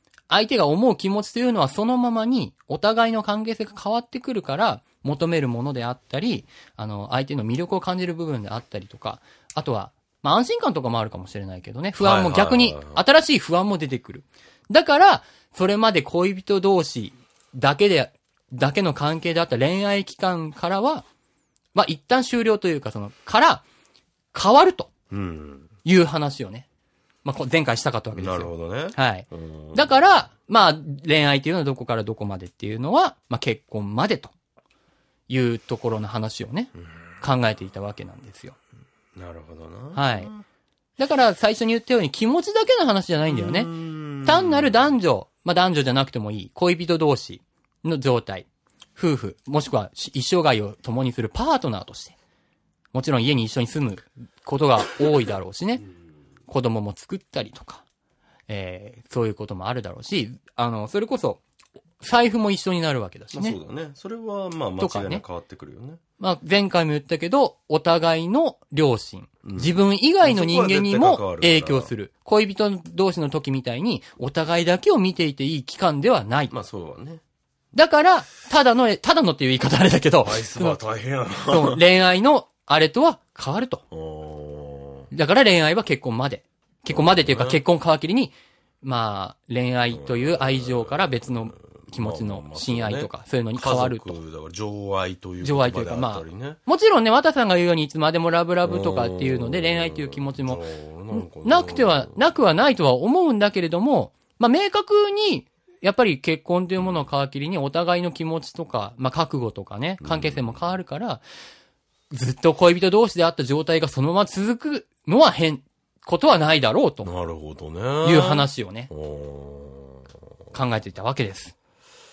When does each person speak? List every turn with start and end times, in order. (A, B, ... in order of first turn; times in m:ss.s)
0:00.3-0:21.0 A
0:12.0-0:13.0 B
0:21.7-0:23.6 A
0:24.3-0:24.9 A
0:25.1-0:25.7 B
0:25.8-0:26.6 A
0:27.2-0:34.3 A
0:28.1-0:29.9 B
0:35.3-0:38.6 A
0:39.2-0:40.4 B
0:39.9-0:40.3 A
0:41.0-0:52.2 A
0:43.3-0:44.7 B
0:52.9-0:55.8 A
0:56.5-0:57.8 A
0:58.5-1:01.4 A
1:02.0-1:03.6 A
1:03.3-1:06.0 B
1:04.8-1:05.2 A
1:06.2-1:16.5 A
1:09.4-1:11.9 B
1:16.5-1:17.2 B
1:17.7-1:20.8 A
1:20.2-1:21.8 B
1:21.5-1:23.8 A
1:23.9-1:25.1 B
1:25.1-1:34.2 A
1:26.9-1:27.6 B
1:29.9-1:36.6 B
1:35.4-1:51.2 A
1:38.6-1:42.1 B
1:50.0-1:50.5 B
1:52.1-1:57.1 A
1:57.0-2:00.0 B
1:58.0-1:58.9 A
2:00.5-2:01.5 A